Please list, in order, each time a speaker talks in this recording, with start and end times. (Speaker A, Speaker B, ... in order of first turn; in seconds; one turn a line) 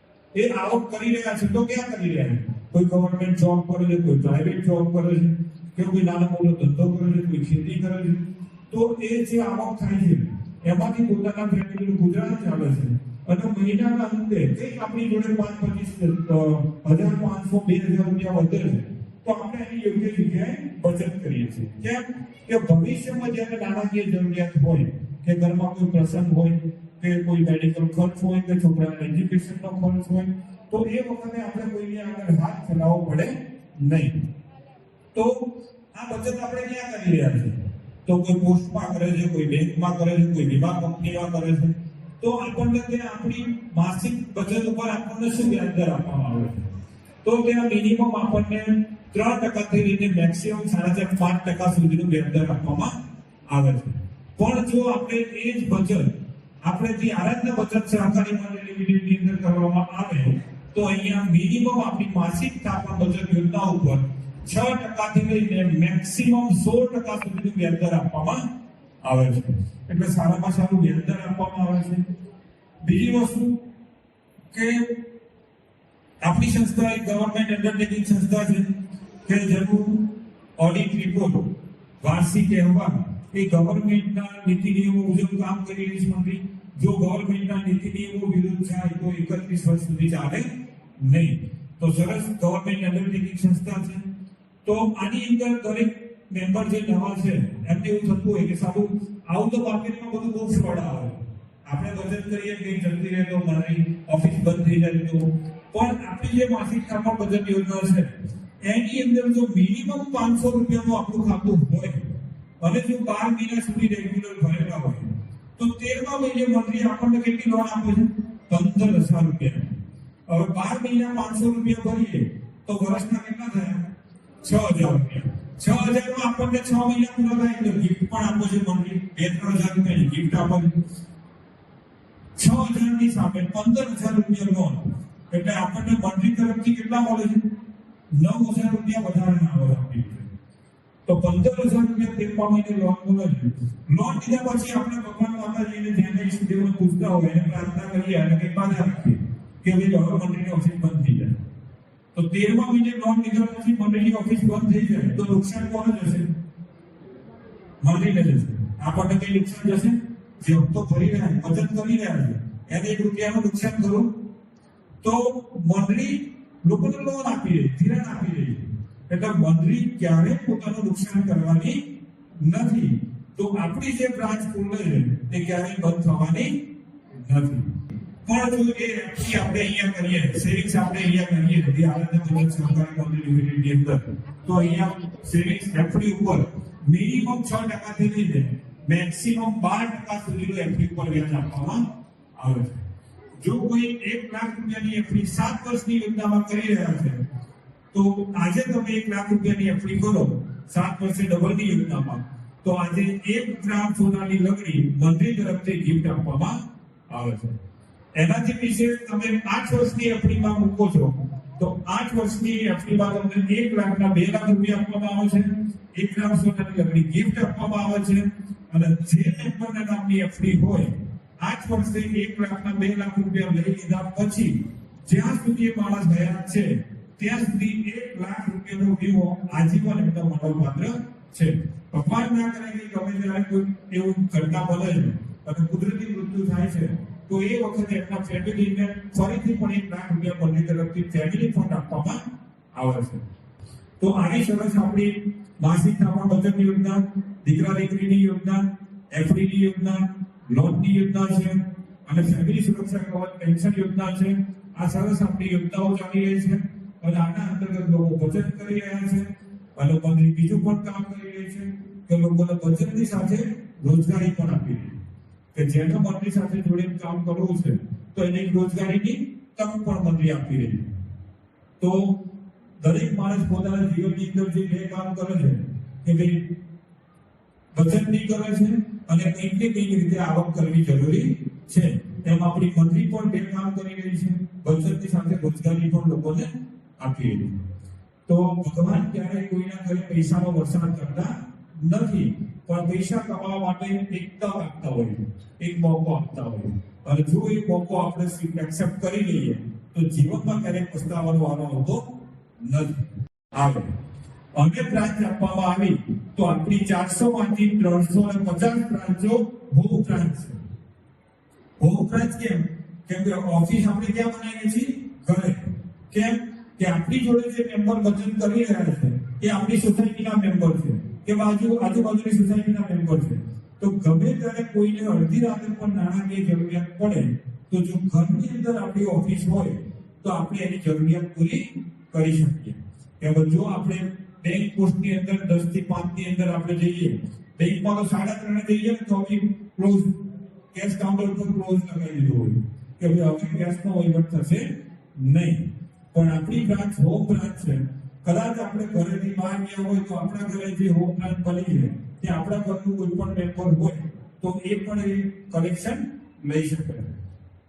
Speaker A: 0.3-34.2
Speaker A: 35.9-46.7
Speaker A: 47.2-52.9
Speaker A: 53.5-56.1
Speaker A: 56.6-68.4
Speaker A: 69.0-72.0
Speaker A: 72.8-73.6
Speaker A: 74.5-74.9
Speaker A: 76.2-78.7
Speaker A: 79.2-80.1
Speaker A: 80.6-81.5
Speaker A: 82.0-90.5
Speaker A: 91.0-94.0
Speaker A: 94.6-108.1
Speaker A: 108.7-112.0
Speaker A: 112.6-119.8
Speaker A: 120.3-123.9
Speaker A: 124.4-130.7
Speaker A: 132.4-137.5
Speaker A: 138.1-140.3
Speaker A: 141.1-151.4
Speaker A: 152.1-156.3
Speaker A: 157.8-164.1
Speaker A: 165.0-171.8
Speaker A: 172.4-176.5
Speaker A: 177.2-177.7
Speaker A: 178.2-191.8
Speaker A: 192.4-192.8
Speaker A: 193.4-197.2
Speaker A: 197.9-206.6
Speaker A: 207.1-207.6
Speaker A: 208.2-242.2
Speaker A: 242.8-243.2
Speaker A: 244.0-248.6
Speaker A: 249.1-264.9
Speaker A: 265.5-270.9
Speaker A: 271.8-272.1
Speaker A: 272.8-276.5
Speaker A: 277.7-286.5
Speaker A: 287.0-287.6
Speaker A: 288.3-302.0
Speaker A: 302.6-303.9
Speaker A: 304.6-310.6
Speaker A: 311.8-315.6
Speaker A: 316.1-340.1
Speaker A: 340.7-344.7
Speaker A: 345.2-357.1